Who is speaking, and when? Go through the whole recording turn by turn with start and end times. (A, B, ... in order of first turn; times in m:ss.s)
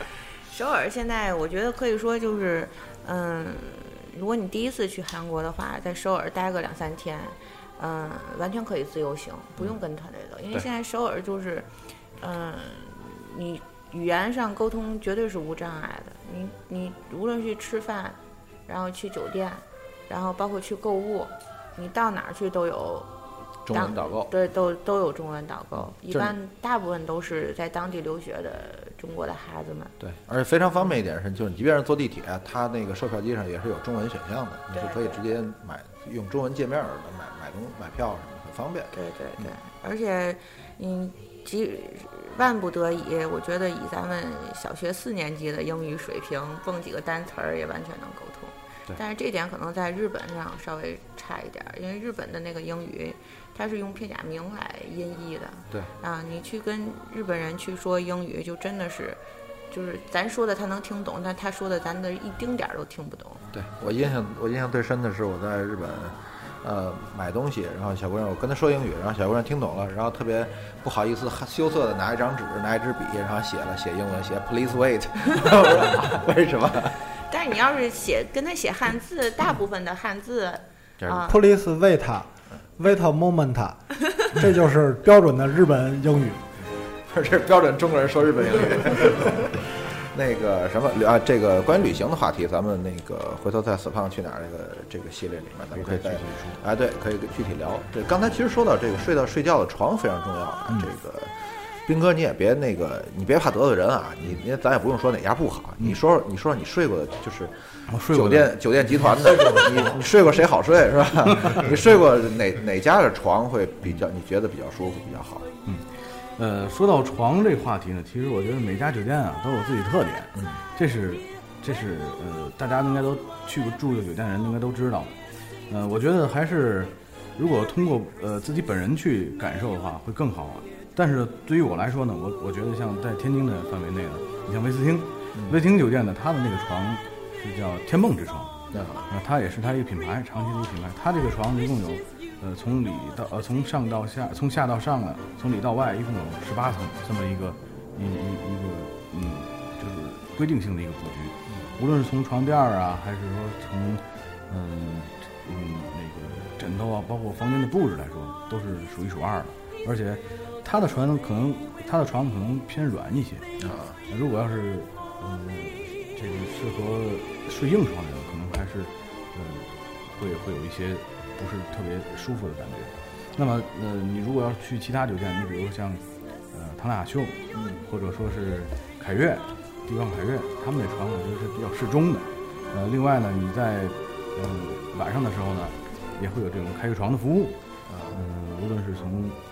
0:00.5-0:23.1 A
0:23.6-0:24.3 B
0:23.7-0:29.9 A
0:26.1-0:26.4 B
0:30.0-0:39.5 B
0:34.7-0:35.3 A
0:38.9-1:03.4 A
1:03.5-1:17.0 B
1:17.3-1:21.4 A
1:21.0-1:21.3 B
1:21.2-1:26.4 C
1:27.0-1:55.5 B
1:35.7-1:36.6 D
1:47.9-1:48.6 D
1:55.6-2:05.1 D
2:05.7-2:18.5 D
2:15.3-2:15.6 B
2:18.7-2:19.1 B
2:19.1-2:43.4 D
2:43.6-2:44.0 B
2:44.1-3:07.6 D
2:57.5-2:57.8 B
3:07.9-3:08.2 B
3:08.1-3:09.4 D